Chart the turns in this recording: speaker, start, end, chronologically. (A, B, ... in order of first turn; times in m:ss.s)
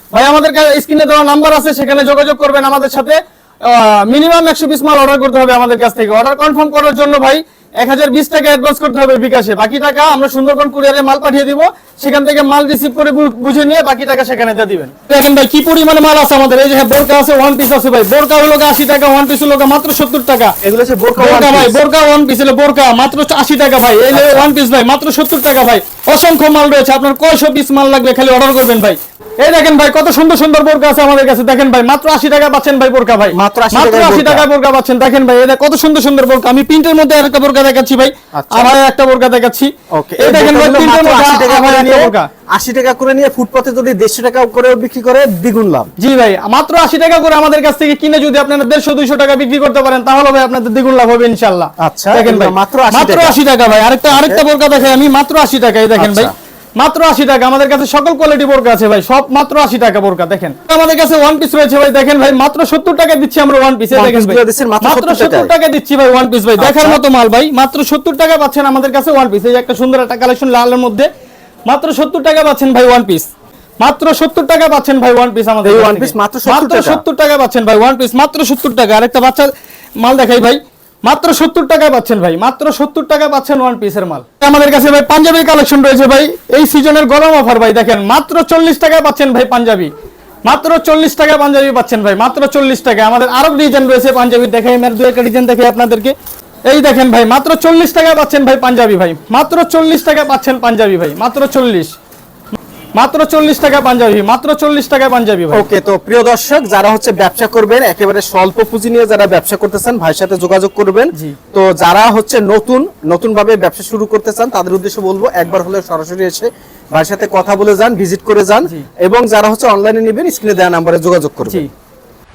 0:00.1-0:20.6 A
0:20.6-0:21.7 B
0:21.2-0:42.3 A
0:24.1-0:24.5 B
0:33.3-0:34.5 B
0:38.3-0:38.8 B
0:39.9-0:45.9 B
0:46.0-1:11.1 A
0:51.8-0:53.4 B
0:54.1-0:54.4 B
0:56.0-0:56.3 B
1:03.9-1:05.5 B
1:06.6-1:07.0 B
1:11.7-1:13.3 A
1:13.8-1:29.9 A
1:15.6-1:17.0 B
1:30.4-1:36.1 A
1:36.7-1:41.9 A
1:42.9-1:45.6 A
1:45.5-2:01.6 B